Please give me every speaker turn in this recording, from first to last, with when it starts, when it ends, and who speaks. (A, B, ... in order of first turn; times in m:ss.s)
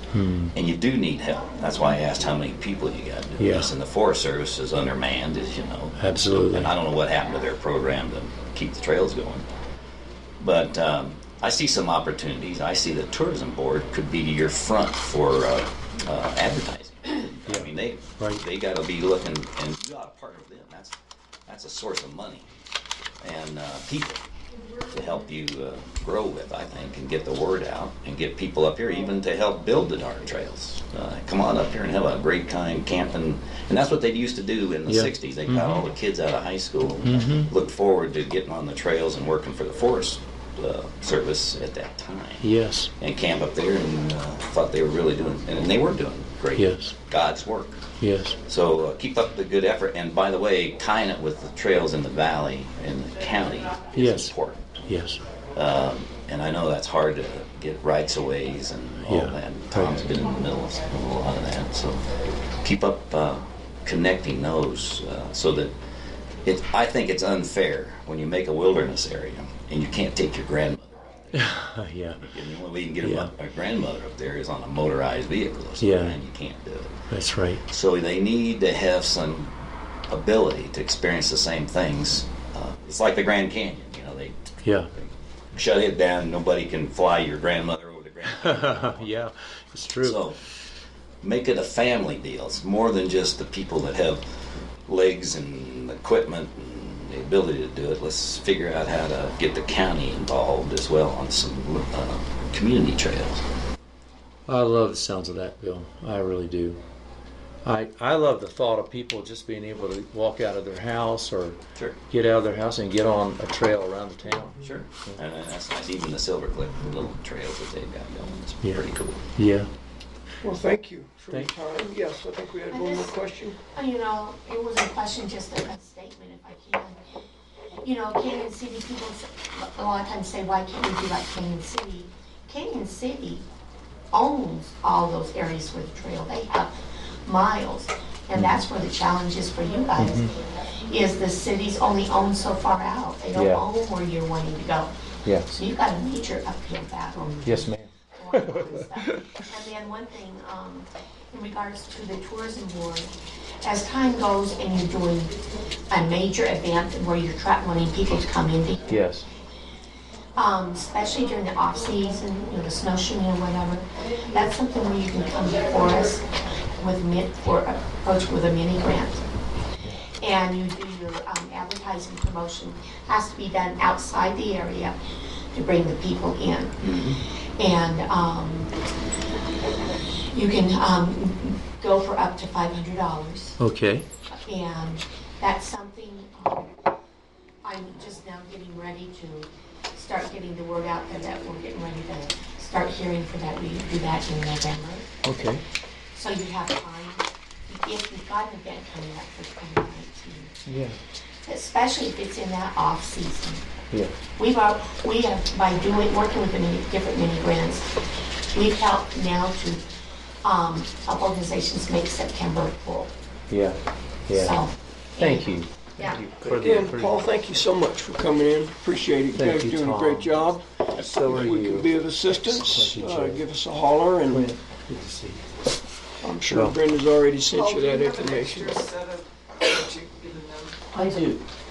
0:00.1-0:00.5 A
0:00.5-0:06.0 B
0:03.4-0:03.7 A
0:06.0-0:06.7 A
0:06.5-0:09.5 B
0:10.4-0:22.5 B
0:23.2-0:24.2 B
0:24.8-0:42.5 B
0:34.9-0:35.8 A
0:37.0-0:37.5 A
0:42.4-0:42.9 A
0:43.0-0:47.9 B
0:46.6-0:46.9 A
0:48.0-0:48.4 A
0:48.5-0:54.8 B
0:53.9-0:54.3 A
0:54.9-0:55.2 A
0:55.5-1:02.1 B
0:59.0-1:00.0 A
1:02.6-1:05.7 B
1:06.4-1:11.5 B
1:11.4-1:12.2 A
1:12.2-1:17.0 B
1:13.0-1:13.3 A
1:15.8-1:16.2 A
1:17.1-1:17.6 A
1:17.7-1:19.5 B
1:20.1-1:24.4 B
1:24.6-1:24.9 A
1:25.0-1:29.2 B
1:28.4-1:30.2 A
1:30.0-1:30.4 B
1:31.2-1:34.2 B
1:34.9-1:43.4 B
1:44.5-1:46.8 A
1:47.6-1:51.6 A
1:52.1-1:54.6 A
1:54.6-1:59.3 B
1:59.4-1:59.7 A
2:00.4-2:03.6 C
2:02.7-2:03.2 D
2:03.7-2:07.0 D
2:07.8-2:13.4 D
2:14.1-2:25.0 D
2:18.4-2:18.6 A
2:20.0-2:20.3 A
2:23.3-2:23.6 A
2:25.2-2:25.6 A
2:25.5-2:33.1 D
2:27.4-2:27.9 A
2:33.6-2:35.4 D
2:35.9-2:39.0 D
2:38.9-2:39.3 A
2:40.4-2:46.3 D
2:46.8-2:49.2 D
2:50.2-2:55.0 D
2:55.5-2:56.9 D
2:56.9-2:57.2 B
2:57.6-2:58.7 D
3:00.3-3:03.6 D
3:03.6-3:04.1 A
3:04.3-3:06.7 D
3:07.6-3:15.1 D
3:15.2-3:15.6 A
3:16.1-3:20.6 D
3:20.7-3:21.0 A
3:21.5-3:23.7 D
3:24.4-3:28.0 D
3:28.5-3:29.8 D
3:30.4-3:33.1 D
3:33.5-3:34.6 A
3:34.4-3:36.2 D
3:35.2-3:37.2 A
3:36.4-3:44.5 C
3:39.3-3:43.4 A
3:44.3-3:45.4 A
3:46.2-3:48.9 C
3:46.5-3:46.8 A
3:47.5-3:50.7 E
3:50.9-3:51.4 A